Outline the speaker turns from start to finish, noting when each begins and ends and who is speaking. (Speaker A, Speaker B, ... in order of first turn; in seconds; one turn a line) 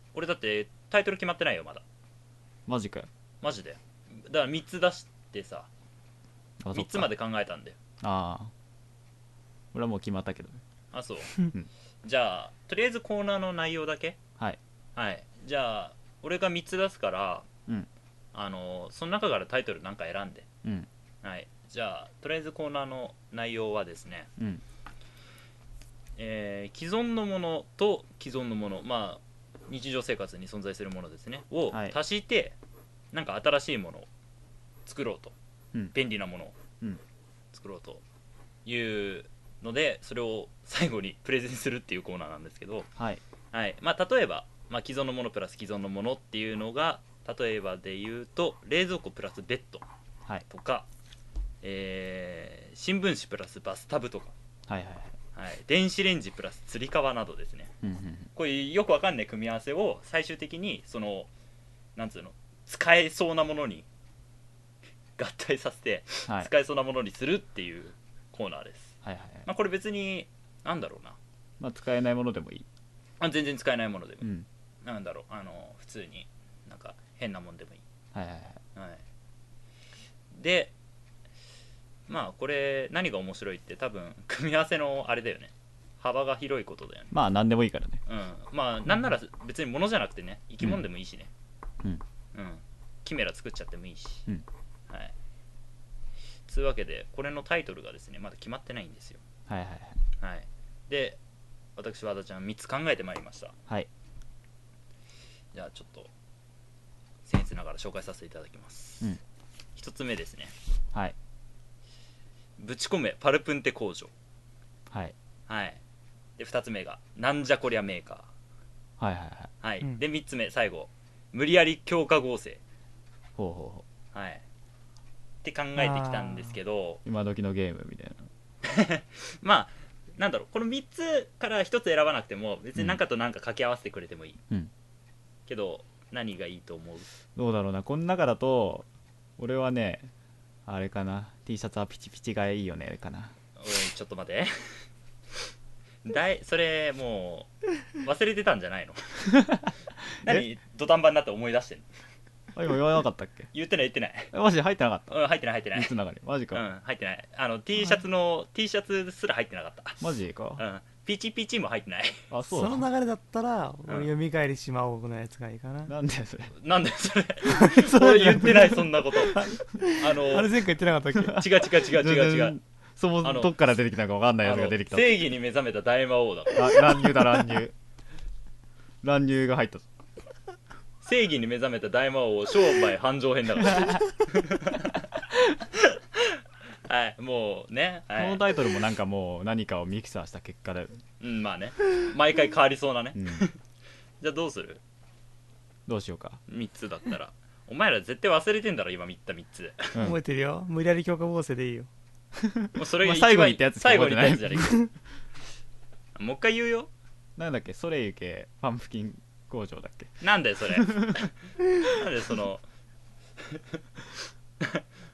Speaker A: 0.1-1.8
Speaker B: 2.7-3.1
Speaker A: 3.4-5.7
Speaker B: 6.6-7.1
Speaker A: 6.7-7.8
Speaker B: 8.0-8.5
Speaker B: 9.7-10.6
Speaker A: 10.9-11.5
Speaker A: 12.0-14.2
Speaker A: 15.0-17.5
Speaker A: 18.3-20.5
Speaker A: 21.2-24.3
Speaker B: 24.4-24.6
Speaker A: 26.2-32.6
Speaker B: 31.7-32.0
Speaker A: 33.1-34.1
Speaker A: 34.9-35.3
Speaker A: 35.9-36.6
Speaker A: 37.5-38.0
Speaker A: 38.6-42.9
Speaker B: 43.0-43.2
Speaker A: 43.5-49.9
Speaker A: 50.5-50.9
Speaker A: 51.6-54.4
Speaker B: 54.7-55.2
Speaker A: 55.4-57.7
Speaker B: 57.8-58.3
Speaker A: 58.4-61.3
Speaker A: 62.0-63.9
Speaker A: 65.2-68.9
Speaker B: 69.0-69.5
Speaker A: 69.5-71.2
Speaker B: 71.6-72.7
Speaker A: 73.2-74.3
Speaker B: 74.2-74.5
Speaker A: 74.8-77.8
Speaker B: 78.1-78.6
Speaker A: 78.8-79.0
Speaker A: 80.3-80.7
Speaker A: 82.1-87.1
Speaker B: 87.1-88.0
Speaker A: 88.1-91.3
Speaker A: 92.3-94.3
Speaker A: 94.9-95.1
Speaker A: 96.5-99.2
Speaker B: 99.5-100.0
Speaker A: 100.2-101.2
Speaker A: 101.8-103.5
Speaker A: 105.5-106.1
Speaker A: 107.2-109.1
Speaker A: 109.8-110.5
Speaker A: 112.6-114.1
Speaker B: 114.9-115.2
Speaker A: 115.5-115.8
Speaker A: 116.4-118.3
Speaker B: 119.0-119.5
Speaker A: 119.6-122.6
Speaker B: 123.4-123.8
Speaker A: 124.1-124.4
Speaker A: 125.4-127.0
Speaker C: 125.8-126.5
Speaker B: 127.0-128.2
Speaker A: 128.6-134.4
Speaker A: 135.5-137.1
Speaker B: 137.4-138.9
Speaker B: 139.4-140.1
Speaker B: 140.7-143.3
Speaker A: 143.6-144.8
Speaker A: 146.0-149.4
Speaker B: 149.3-149.7
Speaker A: 150.2-151.9
Speaker B: 152.6-153.5
Speaker A: 153.5-154.3
Speaker B: 154.3-155.2
Speaker A: 155.1-155.9
Speaker B: 155.7-156.7
Speaker A: 156.5-162.2
Speaker B: 160.0-160.6
Speaker B: 162.3-162.8
Speaker C: 162.5-165.9
Speaker B: 165.9-166.5
Speaker A: 166.6-170.6
Speaker C: 167.5-167.8
Speaker B: 167.6-169.0
Speaker C: 169.3-171.4
Speaker B: 171.3-175.2
Speaker A: 171.3-172.6
Speaker A: 173.2-173.5
Speaker A: 174.4-177.2
Speaker B: 176.6-177.7
Speaker B: 179.0-179.9
Speaker A: 181.0-188.4
Speaker B: 188.2-191.0
Speaker A: 191.2-193.6
Speaker B: 193.2-193.5
Speaker A: 194.2-194.8
Speaker B: 195.9-196.4
Speaker A: 196.5-200.1
Speaker B: 199.9-200.2
Speaker C: 200.0-201.9
Speaker B: 202.4-204.8
Speaker A: 202.8-204.9
Speaker A: 206.2-206.9
Speaker B: 207.4-210.1
Speaker A: 210.2-212.6
Speaker B: 210.7-211.3